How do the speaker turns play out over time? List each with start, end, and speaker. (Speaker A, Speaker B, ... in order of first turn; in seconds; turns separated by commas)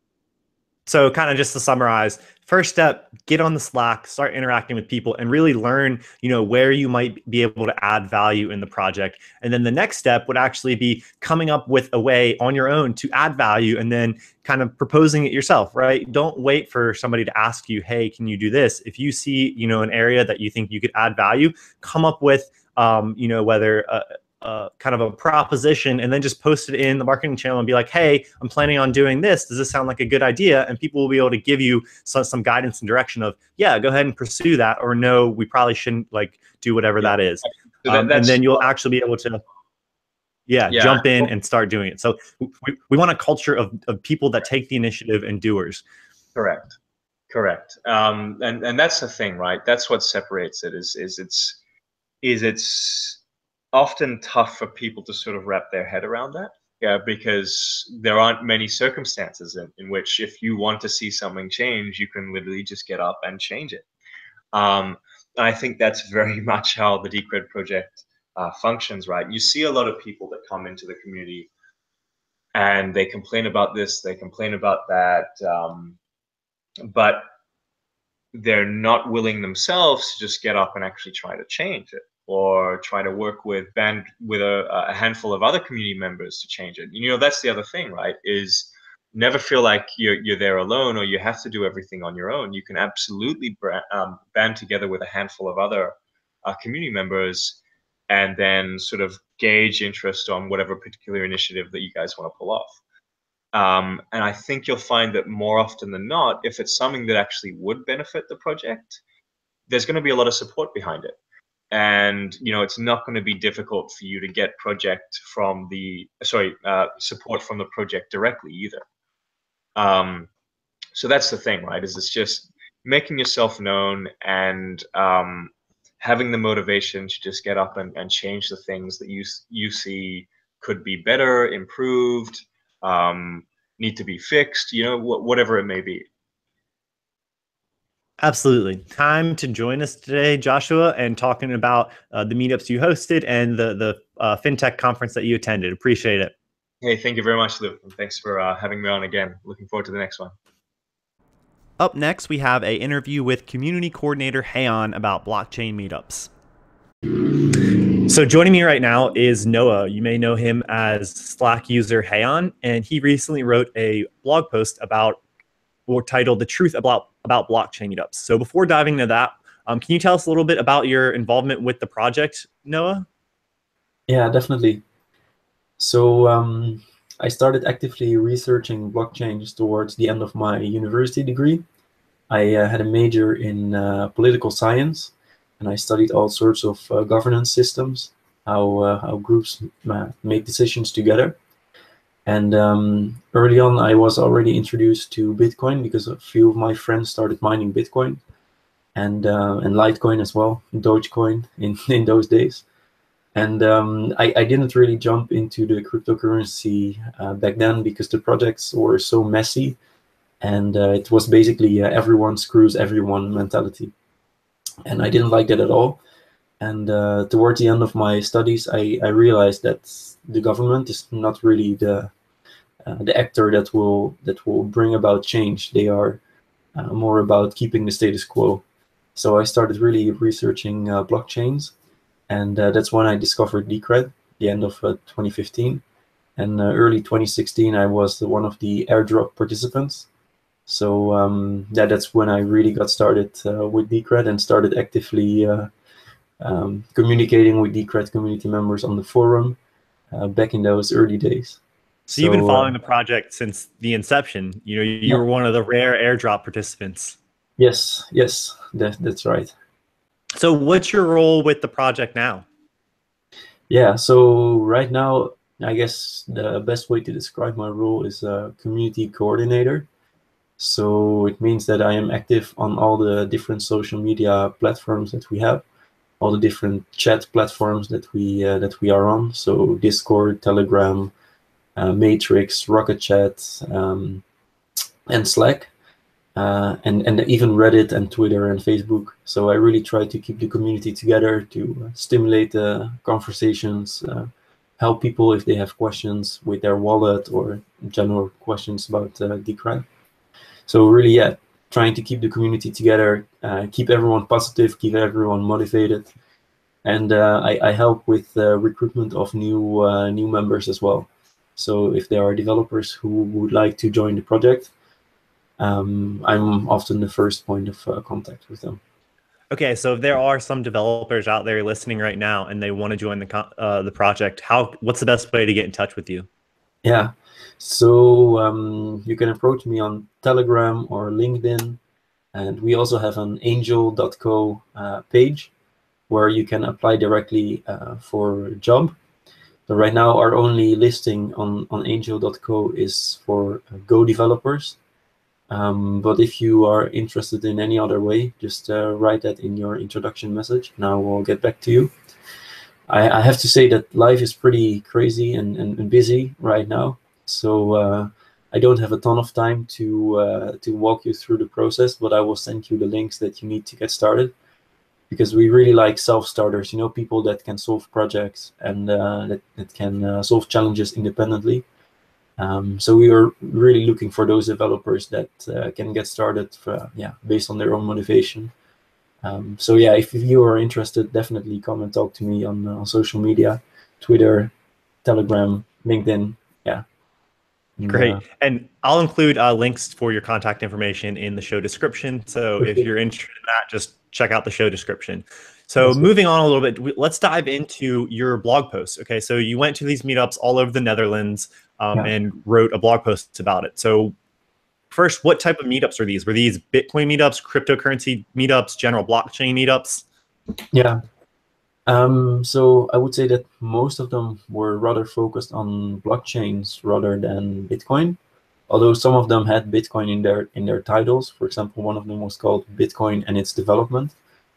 Speaker A: 0.9-39.4, Speaker B: 37.0-38.7, Speaker A: 40.5-45.8, Speaker B: 40.7-41.3, Speaker B: 46.4-46.8, Speaker B: 47.3-51.6, Speaker B: 52.2-53.2, Speaker B: 53.7-63.9, Speaker B: 64.5-71.5, Speaker B: 72.5-76.0, Speaker B: 76.8-77.3, Speaker B: 78.3-102.8, Speaker B: 103.5-109.0, Speaker B: 109.7-111.2, Speaker B: 111.7-118.8, Speaker B: 119.8-120.3, Speaker B: 120.9-136.1, Speaker A: 138.2-146.3, Speaker B: 146.8-150.3, Speaker A: 151.8-156.3, Speaker A: 157.5-165.2, Speaker A: 165.9-173.1, Speaker C: 174.1-174.8, Speaker C: 175.8-181.7, Speaker C: 182.3-191.4, Speaker C: 192.3-198.2, Speaker C: 198.9-202.6, Speaker C: 203.3-209.8, Speaker C: 210.4-213.9, Speaker C: 214.9-216.0, Speaker C: 216.6-222.1, Speaker C: 222.8-226.2, Speaker C: 226.8-228.6, Speaker C: 229.2-231.7, Speaker C: 232.3-235.8, Speaker C: 236.4-240.1, Speaker C: 240.7-245.7, Speaker C: 246.4-249.6, Speaker C: 250.1-252.7, Speaker A: 252.1-257.2, Speaker C: 257.6-259.5, Speaker A: 260.4-262.4, Speaker C: 263.7-269.9, Speaker C: 270.6-275.6, Speaker C: 276.2-281.1, Speaker C: 281.8-284.2, Speaker C: 285.1-285.7, Speaker C: 286.4-299.9, Speaker C: 300.7-306.1, Speaker C: 306.9-314.7, Speaker C: 315.6-318.8, Speaker A: 319.5-326.3, Speaker C: 326.8-331.8, Speaker C: 332.3-335.5, Speaker C: 336.1-339.0, Speaker C: 339.7-344.8, Speaker C: 345.5-351.9, Speaker C: 352.9-364.3, Speaker C: 365.1-371.6, Speaker C: 372.4-378.5, Speaker C: 379.2-384.5, Speaker C: 385.0-386.9, Speaker C: 387.8-388.2, Speaker A: 387.9-404.1, Speaker C: 392.6-392.9, Speaker C: 395.8-396.1, Speaker A: 404.9-410.0, Speaker C: 410.7-411.0, Speaker C: 411.9-418.2, Speaker C: 418.7-424.1